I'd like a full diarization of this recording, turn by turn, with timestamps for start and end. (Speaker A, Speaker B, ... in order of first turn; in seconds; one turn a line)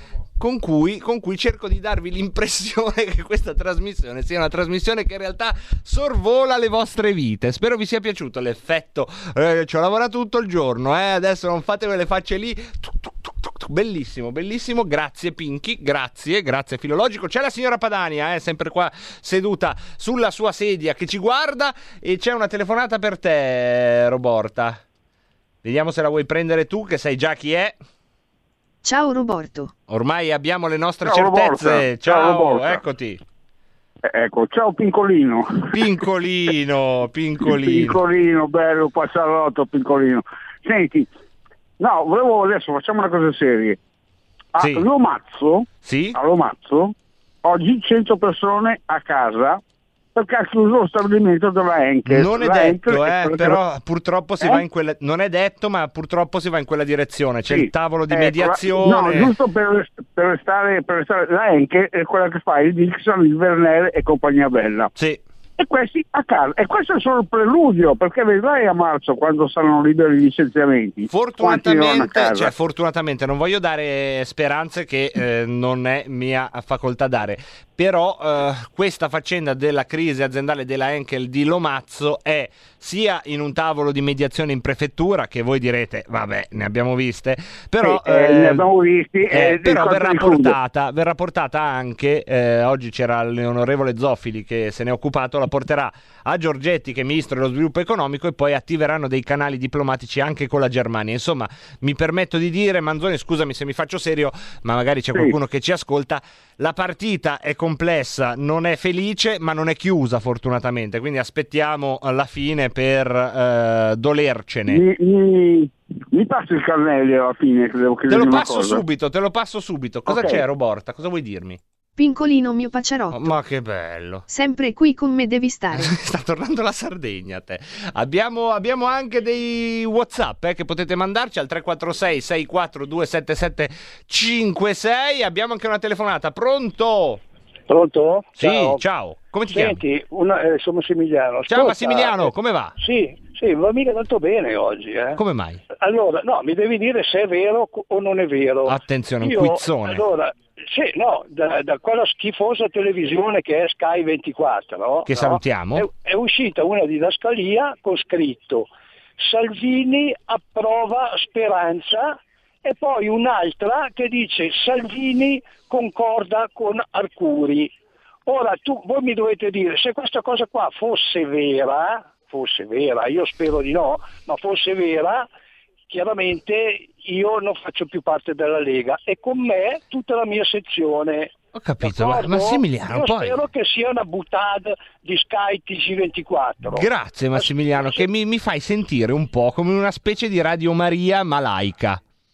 Speaker A: 0.4-24.8
Speaker A: 25.6-27.8
Speaker B: 28.8-29.7
Speaker A: 29.9-33.2
Speaker C: 31.0-32.8
Speaker C: 34.0-35.7
Speaker A: 35.7-38.0
Speaker C: 37.4-41.1
Speaker C: 41.8-43.8
Speaker C: 44.5-49.6
Speaker A: 44.6-44.8
Speaker A: 45.8-46.2
Speaker C: 50.1-53.6
Speaker A: 52.1-59.3
Speaker C: 57.5-64.9
Speaker A: 65.0-65.2
Speaker C: 65.6-72.5
Speaker A: 71.1-88.6
Speaker C: 87.8-90.6
Speaker A: 89.3-114.8
Speaker C: 114.7-118.8
Speaker A: 118.1-121.6
Speaker C: 120.1-120.4
Speaker B: 122.0-123.3
Speaker A: 123.1-124.2
Speaker B: 124.3-125.9
Speaker A: 125.7-137.2
Speaker D: 137.7-138.8
Speaker A: 138.4-139.8
Speaker D: 139.5-145.2
Speaker A: 141.5-142.7
Speaker A: 145.2-145.6
Speaker D: 145.7-167.7
Speaker A: 148.6-150.0
Speaker A: 155.1-155.9
Speaker D: 168.2-175.3
Speaker D: 175.9-188.1
Speaker A: 181.5-183.4
Speaker A: 186.7-192.0